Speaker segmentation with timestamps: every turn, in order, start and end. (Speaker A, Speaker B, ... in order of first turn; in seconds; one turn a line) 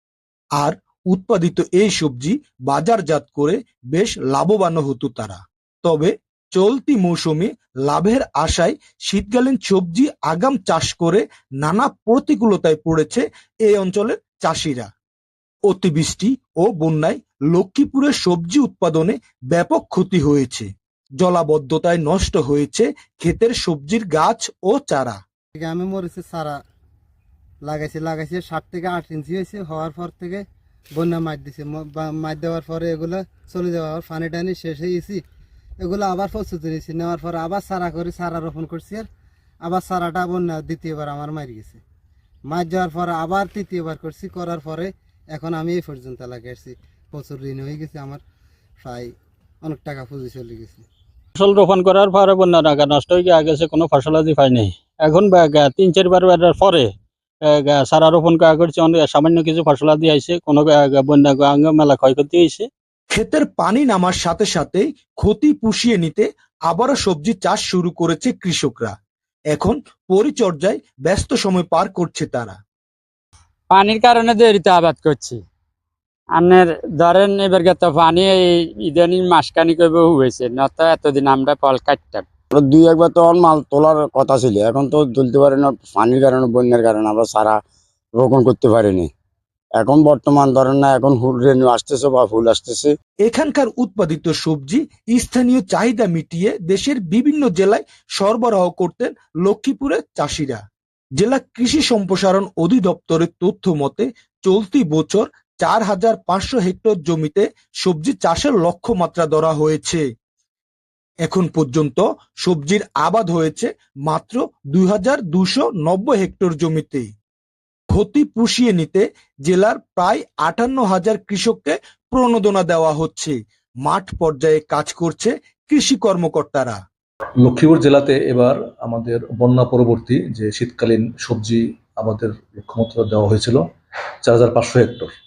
Speaker A: 0.6-14.9
Speaker A: 15.7-20.7
Speaker A: 21.2-25.2
Speaker B: 25.6-26.6
Speaker B: 27.6-35.2
Speaker B: 35.8-39.1
Speaker B: 39.6-41.8
Speaker B: 42.5-48.2
Speaker B: 48.8-50.9
Speaker C: 51.4-62.7
Speaker A: 63.1-68.9
Speaker A: 69.5-72.6
Speaker D: 73.7-75.4
Speaker D: 76.3-82.2
Speaker E: 82.5-87.6
Speaker E: 88.2-89.1
Speaker E: 89.8-92.9
Speaker A: 93.2-100.6
Speaker A: 101.2-110.0
Speaker A: 111.2-117.1
Speaker A: 117.9-126.8
Speaker F: 127.4-133.6
Speaker F: 134.2-135.1